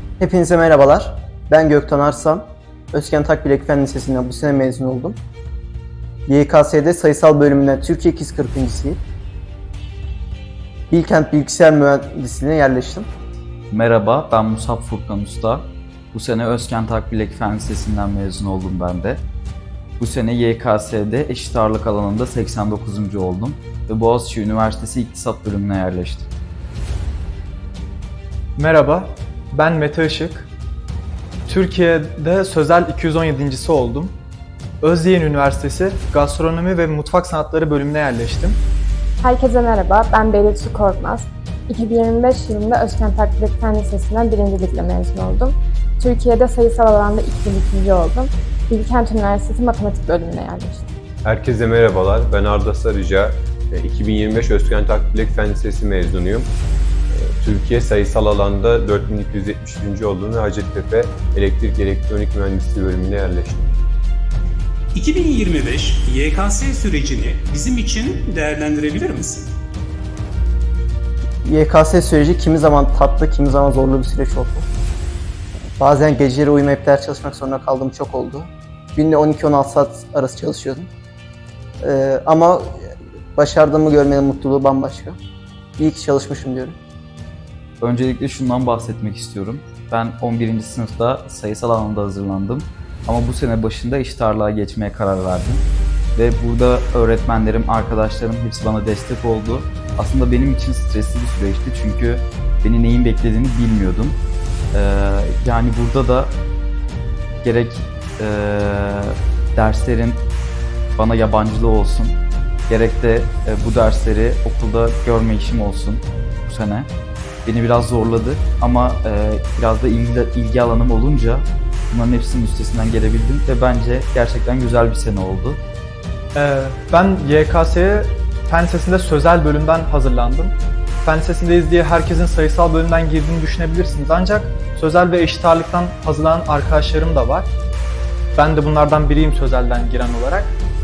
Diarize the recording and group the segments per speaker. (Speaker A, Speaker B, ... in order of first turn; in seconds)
Speaker A: 0.2-5.2, 6.3-9.0, 10.9-13.1, 71.4-74.7, 75.8-80.9, 81.8-85.2, 85.8-86.8
Speaker B: 13.7-19.2, 20.0-26.3, 87.8-104.2, 104.7-106.4, 107.4-110.3, 111.0-116.9, 117.4-125.6
Speaker C: 28.6-30.5, 31.5-34.2, 34.8-38.6, 126.3-137.5, 138.3-140.5
Speaker D: 39.2-50.9
Speaker E: 51.2-56.5, 57.1-63.7
Speaker F: 64.9-69.5